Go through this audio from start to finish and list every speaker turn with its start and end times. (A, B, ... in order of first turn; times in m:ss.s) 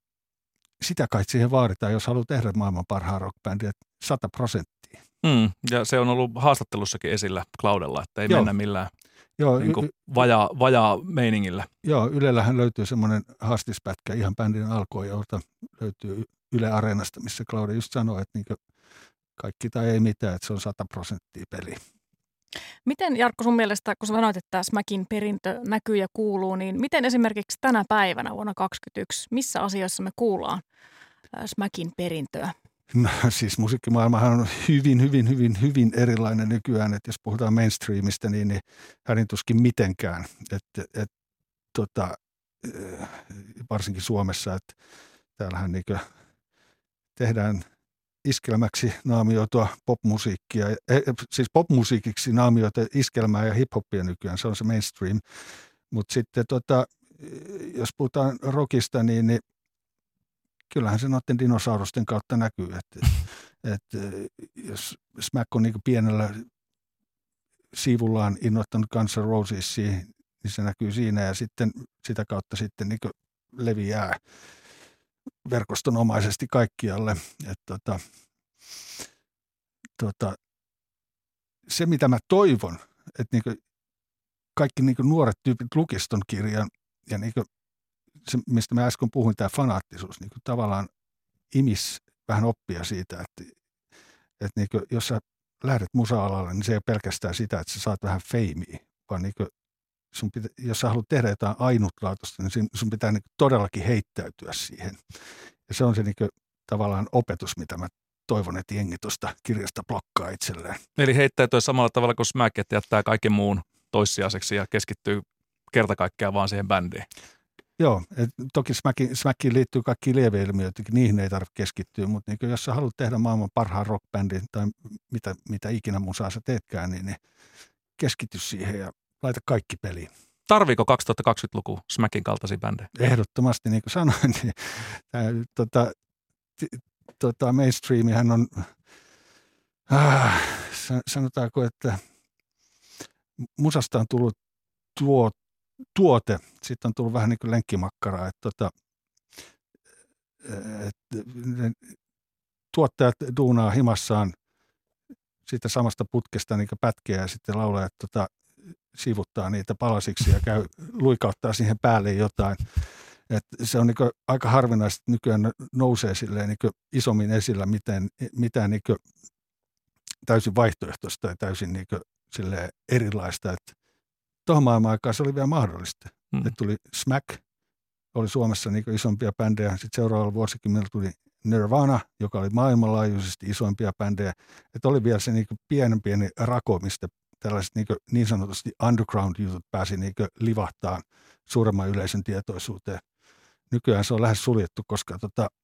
0:00.8-0:05.0 A
0:05.2-0:08.9 B
0:09.4-0:09.9 A
0:09.6-0:11.7 B
0:11.8-0:18.6 A
0:19.4-0:21.8 A
0:22.8-0:30.6 C
0:31.3-0:32.5 C
0:32.9-0:41.1 A
0:41.7-0:44.8 A
0:45.4-0:46.0 A
0:47.2-0:47.6 A
0:48.2-0:55.2 A
0:55.9-0:59.4 A
1:00.7-1:06.5 A
1:07.7-1:14.2 A
1:15.4-1:18.0 A
1:18.7-1:19.0 A
1:20.0-1:20.4 A
1:21.7-1:23.6 A
1:24.6-1:27.5 A
1:28.2-1:30.9 A
1:31.5-1:33.5 A
1:34.4-1:39.5 A
1:40.1-1:45.0 A
1:45.7-1:50.8 A
1:51.0-1:57.0 B
1:57.8-2:07.2 A
2:08.0-2:10.1 A
2:10.5-2:12.9 B
2:12.9-2:15.9 A
2:16.6-2:18.7 A
2:19.9-2:22.0 A
2:23.4-2:24.4 A
2:24.9-2:25.4 A
2:25.9-2:28.7 A
2:30.4-2:31.9 A
2:32.7-2:34.3 A
2:35.4-2:38.3 A
2:38.9-2:49.0 A
2:50.2-2:53.7 A
2:54.4-2:57.4 A
2:58.1-3:13.0 A
3:13.7-3:15.5 A